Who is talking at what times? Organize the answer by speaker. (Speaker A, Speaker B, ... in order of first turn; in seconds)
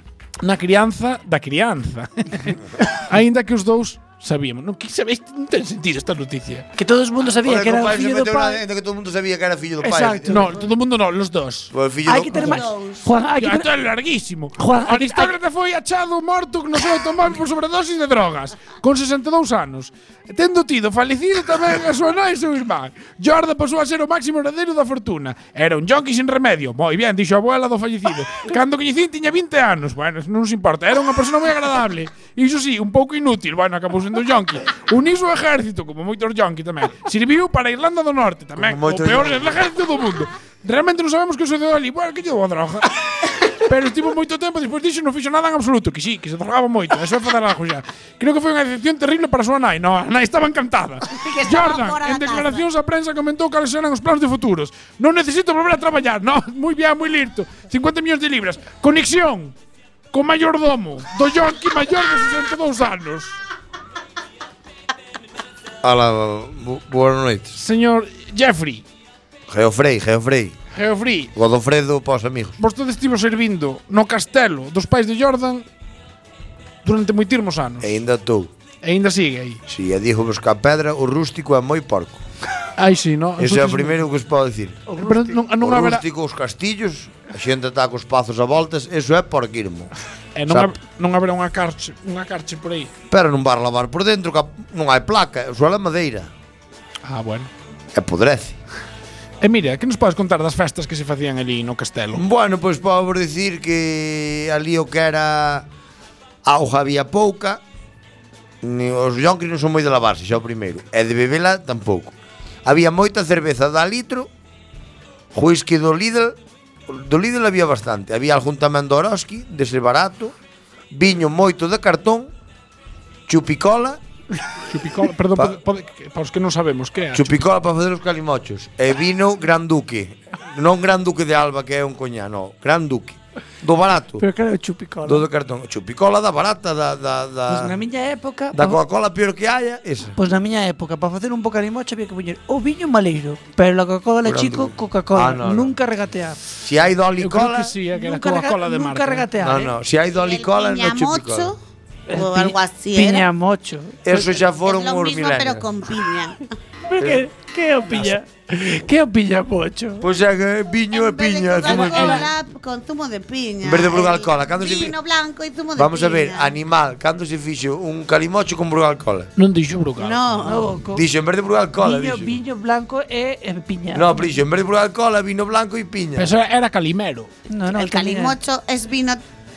Speaker A: 0.4-6.7, 10.3-11.7, 13.4-59.5, 60.1-63.4, 67.5-68.8, 70.7-71.3, 72.6-75.7, 76.8-77.9, 78.8-79.6, 82.8-84.0, 85.0-86.0, 90.3-92.9, 97.0-97.5, 99.4-102.2, 124.7-127.4, 147.2-149.3, 169.4-170.5, 176.2-177.3
Speaker B: 6.8-8.6, 9.8-10.7, 12.1-13.7, 14.6-15.3, 84.9-85.4, 134.2-135.3, 137.5-138.8, 140.2-146.4, 147.9-149.7, 152.1-154.2, 156.9-160.1, 161.7-162.2, 170.5-171.0, 171.8-174.2, 177.5-178.3
Speaker C: 7.4-10.4, 11.7-12.5, 38.6-39.6, 65.8-67.6, 69.5-70.6, 71.3-72.6, 77.8-78.5, 79.7-82.2, 83.4-84.9, 85.6-89.9, 93.1-96.3, 97.9-98.6, 102.1-105.7, 106.5-107.6, 108.6-114.3, 115.3-116.4, 116.9-120.3, 120.9-122.3, 123.3-124.0, 127.1-134.2, 135.1-137.8, 138.5-140.2, 144.2-145.8, 146.6-147.8, 149.4-151.5, 154.1-155.7, 157.0-157.2, 160.0-162.3, 163.6-164.9, 165.8-169.3, 170.9-172.4, 173.9-176.3
Speaker D: 12.3-13.1, 51.1-52.7, 150.2-151.6, 152.1-153.3, 154.6-156.5, 160.9-166.6, 170.0-170.7, 177.7-179.2